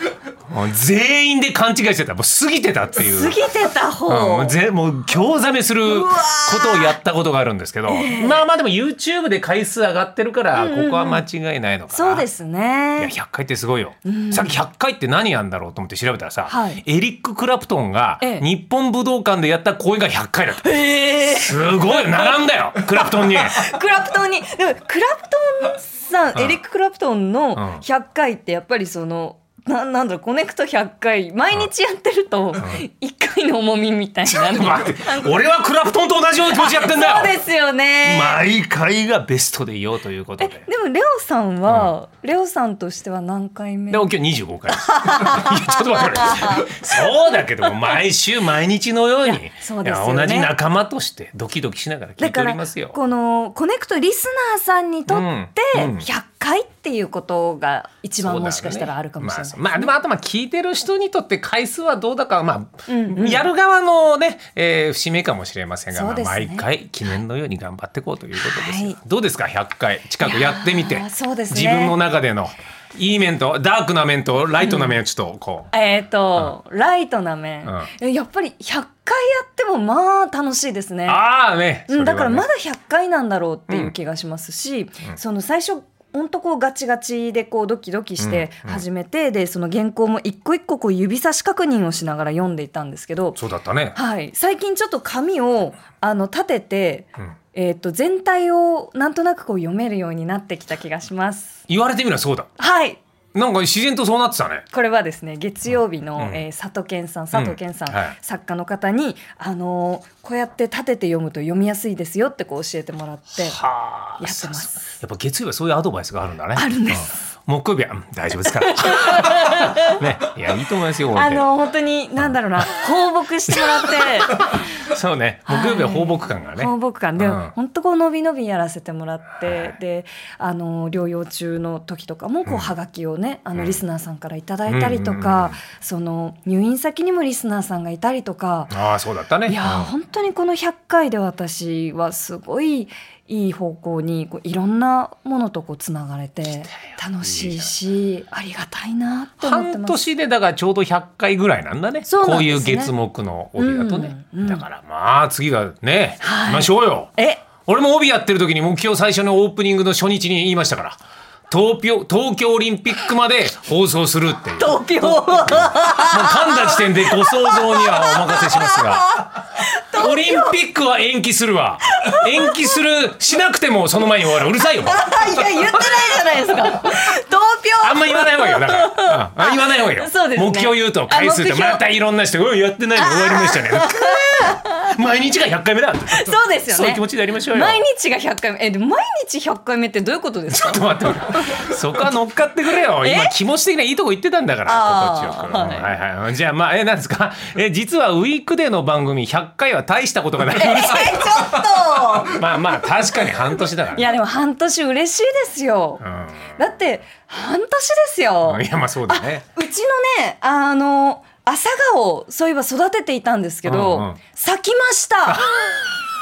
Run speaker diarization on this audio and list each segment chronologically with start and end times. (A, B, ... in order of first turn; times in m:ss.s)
0:00.5-0:03.4 A
0:03.0-0:04.6 B
0:04.1-0:12.3 A
0:05.9-0:07.0 B
0:07.9-0:08.4 B
0:10.5-0:11.2 B
0:11.9-0:13.1 B
0:13.0-0:23.6 A
0:14.0-0:14.6 B
0:16.5-0:16.8 B
0:18.2-0:18.5 B
0:20.6-0:35.4 B
0:27.6-0:27.8 A
0:34.3-0:37.4 A
0:36.5-0:38.4 B
0:38.0-0:40.7 A
0:40.4-0:44.1 B
0:41.7-0:41.9 A
0:43.9-0:53.0 A
0:44.7-0:47.1 B
0:49.2-0:50.5 B
0:52.2-0:59.9 B
0:55.1-0:56.1 A
0:58.2-1:15.7 A
1:02.9-1:03.5 B
1:05.9-1:06.7 B
1:08.4-1:09.0 B
1:10.2-1:12.0 B
1:14.6-1:15.0 B
1:15.7-1:21.2 B
1:21.1-1:22.5 A
1:21.9-1:33.4 B
1:28.2-1:28.8 A
1:33.4-1:34.0 A
1:34.0-1:41.6 B
1:41.7-1:42.5 A
1:42.6-1:43.0 B
1:43.4-1:44.6 A
1:44.7-1:53.6 B
1:46.2-1:46.4 A
1:47.3-1:48.2 A
1:53.5-2:01.5 A
1:54.2-1:55.0 B
1:56.6-1:57.2 B
1:58.5-2:00.0 B
2:01.1-2:04.7 B
2:03.5-2:07.5 A
2:05.5-2:18.7 B
2:09.4-2:09.7 A
2:12.5-2:12.7 A
2:13.6-2:13.8 A
2:14.7-2:15.6 A
2:18.7-2:19.9 A
2:19.5-2:30.0 B
2:26.9-2:27.7 A
2:29.4-2:37.1 A
2:32.1-2:32.9 B
2:33.6-2:34.6 B
2:36.2-2:37.4 B
2:37.7-2:41.0 A
2:41.5-2:49.3 A
2:44.6-2:50.6 B
2:49.9-2:56.5 A
2:52.0-2:52.6 B
2:54.8-3:01.8 B
2:57.8-3:07.8 A
3:03.0-3:04.9 B
3:06.1-3:11.7 B
3:10.5-3:24.1 A
3:13.0-3:13.3 B
3:14.7-3:16.0 B
3:20.5-3:22.5 B
3:23.9-3:26.0 B
3:26.0-3:26.6 A
3:26.6-3:35.5 B
3:28.4-3:29.4 A
3:33.6-3:34.2 A